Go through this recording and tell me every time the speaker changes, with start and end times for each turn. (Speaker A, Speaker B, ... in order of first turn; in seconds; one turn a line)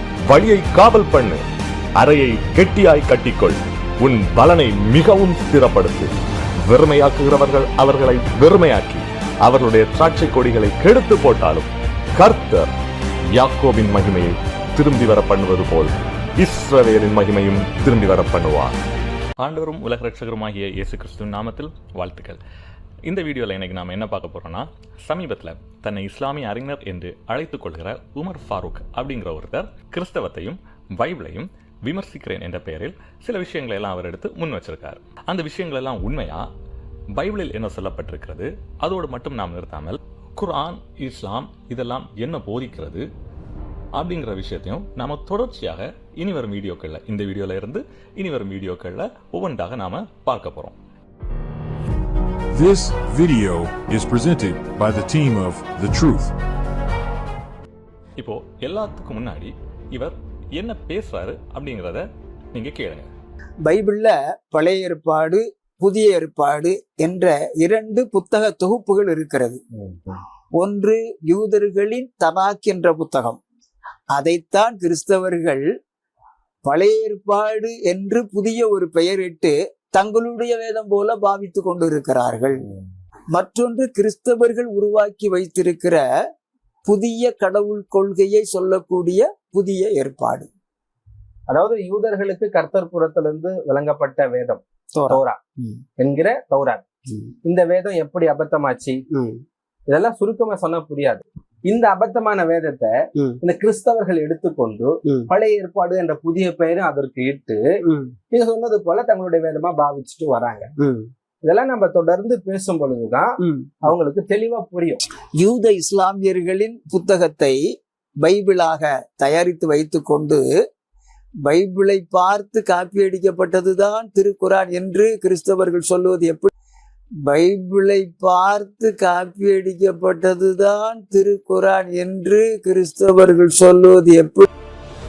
Speaker A: 0.3-1.4
Speaker A: 2.0-12.7
Speaker A: 13.4-18.8
Speaker B: 19.4-22.4
Speaker B: 23.1-36.5
Speaker B: 37.1-43.0
Speaker B: 44.0-50.8
Speaker C: 52.5-56.3
Speaker B: 58.2-63.1
Speaker D: 63.6-69.6
Speaker D: 70.6-73.4
Speaker D: 74.1-75.7
Speaker D: 76.6-82.7
Speaker D: 83.3-86.0
Speaker D: 86.9-90.5
Speaker E: 91.5-95.4
Speaker D: 95.0-95.8
Speaker E: 96.0-96.8
Speaker E: 97.4-99.0
Speaker E: 99.9-107.6
Speaker E: 108.3-110.7
Speaker E: 111.4-113.3
Speaker E: 113.8-115.0
Speaker D: 115.4-117.6
Speaker D: 118.2-120.4
Speaker D: 121.5-126.5
Speaker D: 127.3-134.4